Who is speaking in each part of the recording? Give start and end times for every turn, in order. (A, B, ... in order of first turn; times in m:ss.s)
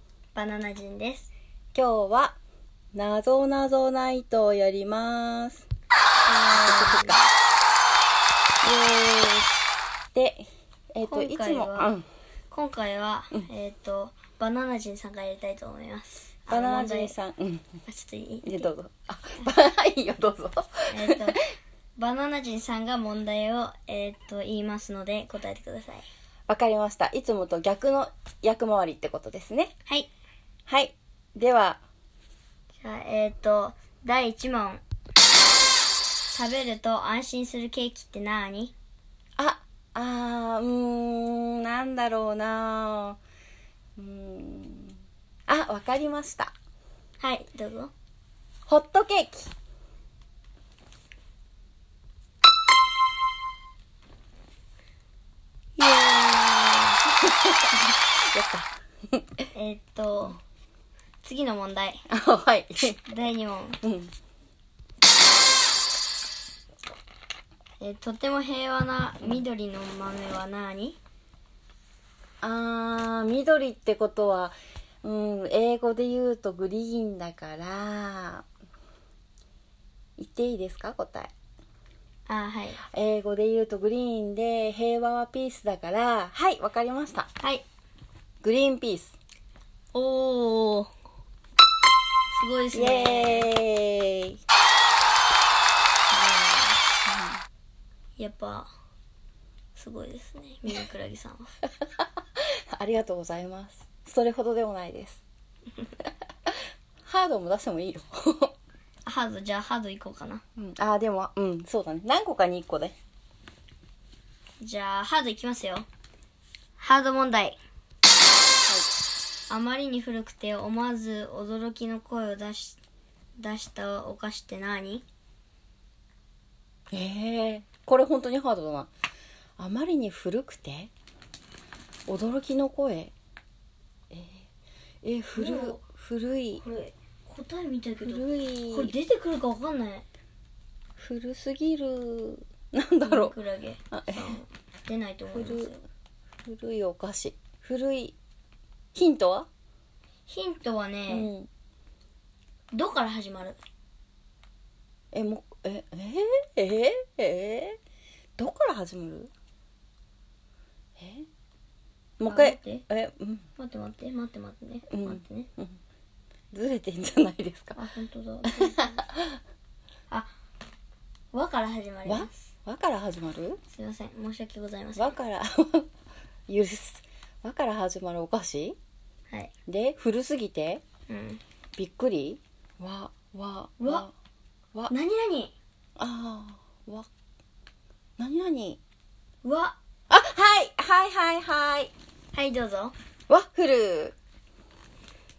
0:00.3-0:01.3 A
0:01.7-0:02.4 B
0:02.9-0:05.6 B
0:06.2-0:07.3 A
0:06.5-0:07.2 B
0:08.6-0:09.6 B
0:10.1-0:12.0 B
0:11.0-0:11.9 A
0:12.5-0:17.1 A
0:16.5-0:17.8 B
0:17.8-0:18.7 A
0:18.4-0:21.3 B
0:20.9-0:21.4 A
0:22.0-0:26.0 A
0:26.5-0:29.7 B
0:30.7-0:31.8 B
0:32.8-0:34.8 A
0:36.3-0:38.7 A
0:39.4-0:43.2 B
0:44.0-0:46.5 B
0:47.2-0:47.9 A
0:48.7-0:49.5 B
0:55.8-0:57.0 A
0:57.2-0:59.5 B
0:59.5-1:00.4 A
1:01.2-1:02.0 A
1:02.1-1:03.0 B
1:03.0-1:03.8 A
1:03.8-1:04.1 B
1:07.8-1:11.0 A
1:12.4-1:18.4 B
1:20.2-1:21.3 B
1:22.3-1:22.8 A
1:22.8-1:27.3 B
1:27.4-1:27.6 A
1:28.4-1:29.1 B
1:29.9-1:30.9 A
1:32.3-1:33.5 A
1:32.7-1:34.4 B
1:36.1-1:36.8 A
1:37.0-1:37.4 B
1:38.2-1:38.7 A
1:39.7-1:41.5 A
1:42.4-1:45.2 B
1:47.0-1:48.5 B
1:49.0-1:50.4 A
1:50.6-1:53.0 B
1:54.6-1:55.8 A
1:56.8-1:57.6 A
1:59.5-2:02.8 A
2:03.4-2:05.0 A
2:06.9-2:08.9 B
2:09.6-2:10.9 B
2:12.1-2:13.1 B
2:14.1-2:14.5 B
2:15.0-2:16.6 B
2:15.4-2:15.8 A
2:16.6-2:20.0 A
2:18.0-2:18.9 B
2:21.0-2:23.4 B
2:23.0-2:25.8 A
2:23.9-2:24.3 B
2:25.3-2:25.7 B
2:26.4-2:28.2 B
2:28.9-2:29.5 B
2:30.3-2:31.3 A
2:31.1-2:31.5 B
2:32.7-2:33.6 A
2:35.1-2:37.8 B
2:38.4-2:39.3 B
2:41.0-2:41.3 B
2:42.2-2:43.5 B
2:42.3-2:42.8 A
2:43.6-2:45.5 A
2:44.9-2:45.8 B
2:46.5-2:47.8 B
2:47.8-2:49.0 A
2:49.1-2:49.4 B
2:51.3-2:52.5 A
2:52.0-2:53.6 B
2:53.7-2:55.2 A
2:55.0-2:55.9 B
2:56.5-2:58.8 B
2:59.7-3:00.8 B
3:01.1-3:01.4 A
3:01.8-3:04.1 B
3:03.8-3:04.1 A
3:04.9-3:05.6 A
3:06.0-3:07.1 B
3:08.2-3:08.8 B
3:09.4-3:09.8 A
3:10.1-3:11.9 B
3:12.3-3:12.9 A
3:13.3-3:14.2 B